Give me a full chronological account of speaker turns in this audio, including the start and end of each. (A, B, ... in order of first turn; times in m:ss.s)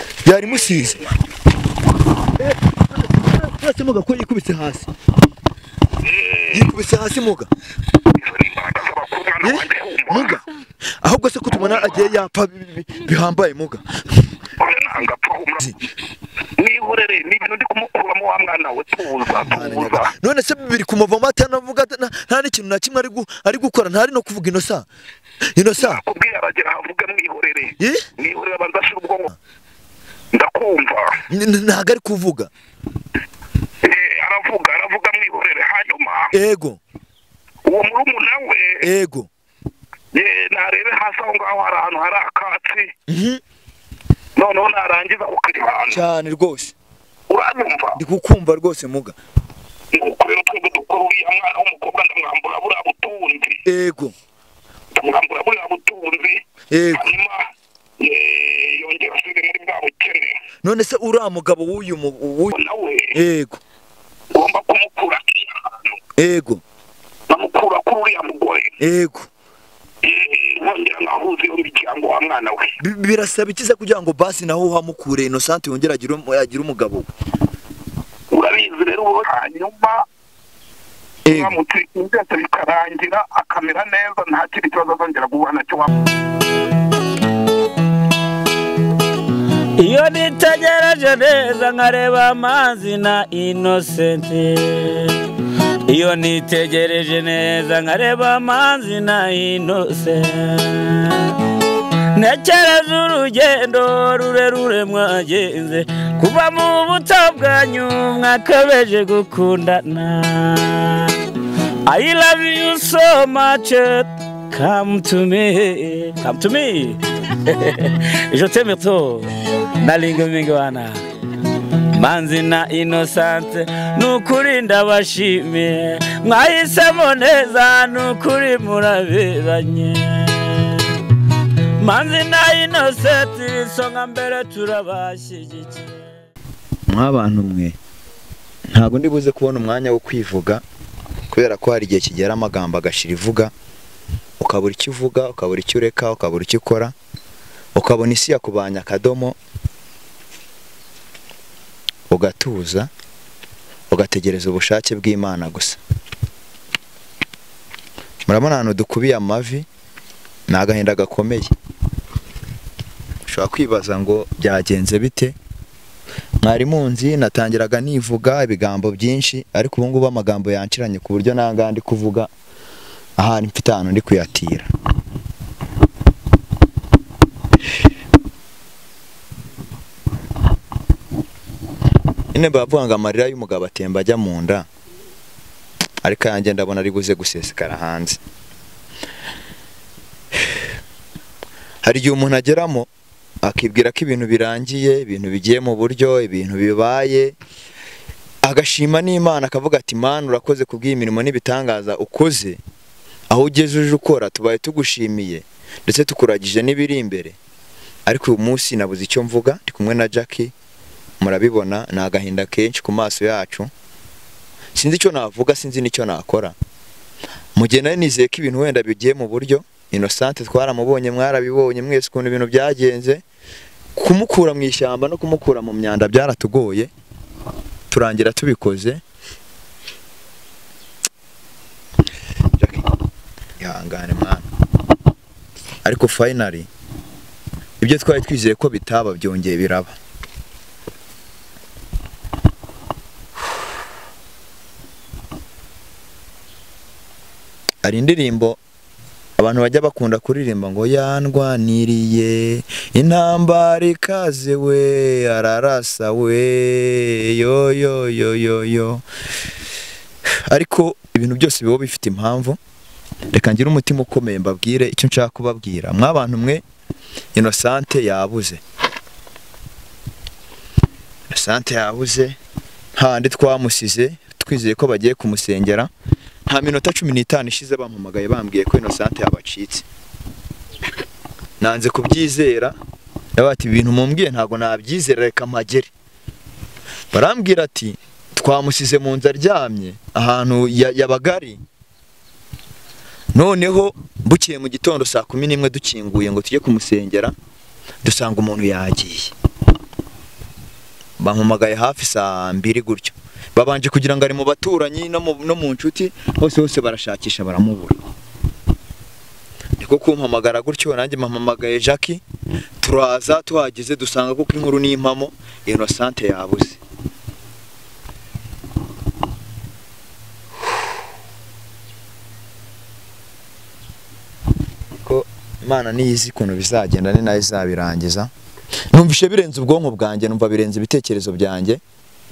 0:00.2-0:01.0 A
0:00.4-0:01.2 B
0:02.4-0:04.9 A
0:06.0-0:06.7 B
0:06.5-0:07.5 A
0:08.1-0:10.4 B
0:09.4-0:10.4 A
0:11.0-0:14.3 A
0:11.5-0:12.0 B
0:14.6-0:15.7 B
0:16.6-0:20.1 B
0:19.4-0:24.9 A
0:25.6-0:26.0 A
0:25.8-0:29.4 B
0:27.8-0:28.1 A
0:30.3-0:31.2 B
0:31.3-0:32.5 A
0:33.8-0:36.3 B
0:36.3-0:36.8 A
0:37.6-0:38.9 B
0:38.8-0:39.3 A
0:40.1-0:42.9 B
0:43.1-0:43.4 A
0:44.4-0:46.0 B
0:45.9-0:46.8 A
0:47.3-0:48.0 B
0:48.0-0:49.2 A
0:49.9-0:53.6 B
0:53.6-0:54.1 A
0:54.9-0:57.5 B
0:56.7-0:57.1 A
0:58.0-1:00.4 B
1:00.6-1:02.5 A
1:02.5-1:03.2 B
1:03.1-1:03.6 A
1:04.3-1:05.9 B
1:06.2-1:06.6 A
1:07.3-1:08.7 B
1:08.8-1:09.3 A
1:10.0-1:12.7 B
1:12.8-1:17.1 A
1:18.3-1:20.0 B
1:21.3-1:21.6 A
1:21.3-1:25.9 B
1:29.8-1:35.1 C
1:35.9-1:41.4 C
1:42.1-1:51.2 C
1:51.9-2:01.0 C
2:02.0-2:10.8 C
2:11.8-2:16.0 C
2:16.9-2:17.8 A
2:18.7-2:20.6 A
2:21.3-2:23.5 A
2:24.4-2:27.0 A
2:27.8-2:29.4 A
2:32.1-2:32.9 A
2:33.9-2:35.8 A
2:38.3-2:39.7 A
2:40.5-2:41.5 A
2:43.3-2:45.4 A
2:46.4-2:52.3 A
2:53.2-2:54.7 A
3:02.3-3:04.7 A
3:06.0-3:08.2 A
3:11.8-3:12.9 A
3:13.4-3:17.4 A
3:18.4-3:22.6 A
3:23.3-3:27.4 A
3:28.1-3:30.5 A
3:31.2-3:33.7 A
3:34.8-3:36.6 A
3:37.6-3:43.2 A
3:44.0-3:46.9 A
3:47.9-3:49.0 A
3:52.6-3:52.9 A
3:53.6-3:54.5 A
3:55.8-3:56.7 A
3:57.8-4:00.0 A
4:07.8-4:08.6 A
4:09.4-4:19.0 A
4:20.5-4:22.6 A
4:23.3-4:26.6 A
4:27.3-4:28.6 A
4:31.3-4:32.4 A
4:33.0-4:35.9 A
4:36.5-4:39.8 A
4:41.6-4:42.8 A
4:43.4-4:45.9 A
4:47.1-4:51.6 A
4:53.3-4:57.3 A
4:58.0-4:59.3 A
5:01.2-5:08.0 A
5:09.8-5:12.2 A
5:12.8-5:16.8 A
5:25.0-5:28.3 A
5:28.9-5:31.8 A